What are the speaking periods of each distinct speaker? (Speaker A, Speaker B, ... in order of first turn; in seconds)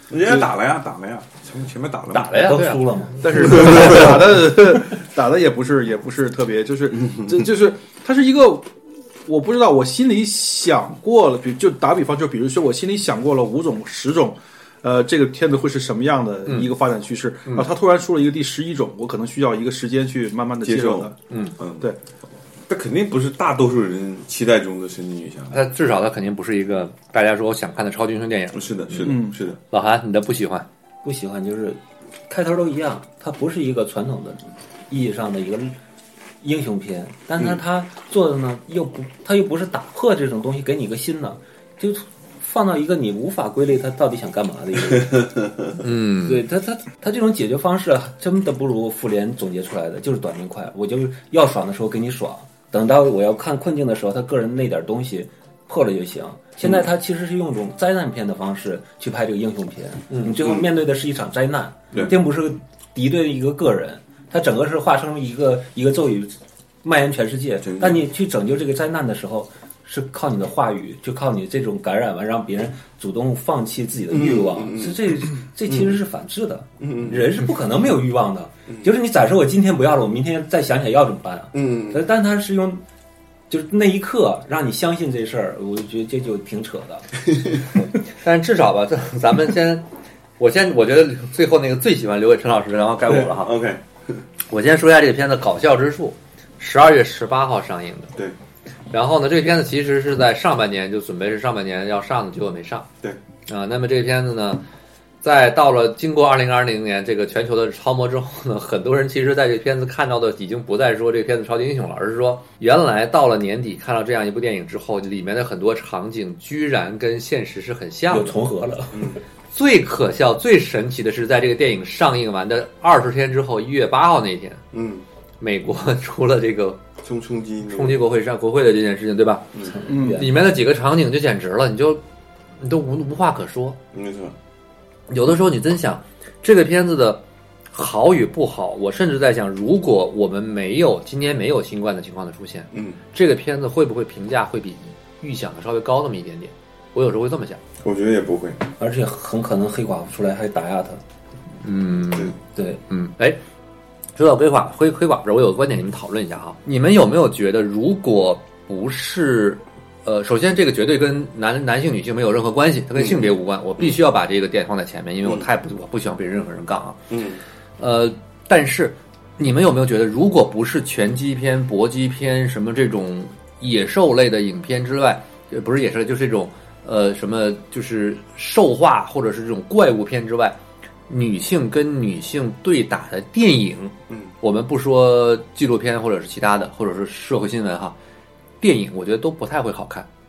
Speaker A: 0.1-2.6, 3.5-4.2, 7.1-7.3, 20.6-21.9, 22.7-25.7, 28.5-29.6, 45.0-45.4, 60.4-60.7, 67.6-68.0, 74.1-75.1, 75.7-76.0, 76.8-77.3, 81.5-82.1, 93.1-94.2, 118.9-119.2, 124.7-125.0, 127.0-128.0, 133.9-134.3, 142.7-143.0, 147.8-148.7, 163.0-164.0, 167.1-167.4
Speaker B: 2.1-2.9, 3.6-4.1, 16.5-16.7, 21.3-21.6, 25.5-30.7, 45.8-46.4, 88.1-89.8, 90.4-93.5, 94.5-98.1, 98.9-102.9, 103.5-104.6, 105.2-118.4, 119.5-124.6, 125.4-126.8, 127.7-129.5, 130.1-132.0, 132.6-133.8, 135.1-147.6, 151.6-152.3, 152.9-153.4, 154.2-167.0, 167.8-180.6, 181.1-188.0, 188.6-190.1
Speaker C: 2.4-4.0, 31.0-35.8, 36.4-45.3, 46.1-82.8, 83.5-87.1, 118.1-119.1, 129.7-130.5, 148.8-151.0, 152.6-152.8
Speaker D: 3.2-8.7, 9.2-21.2, 29.0-29.4, 129.9-130.2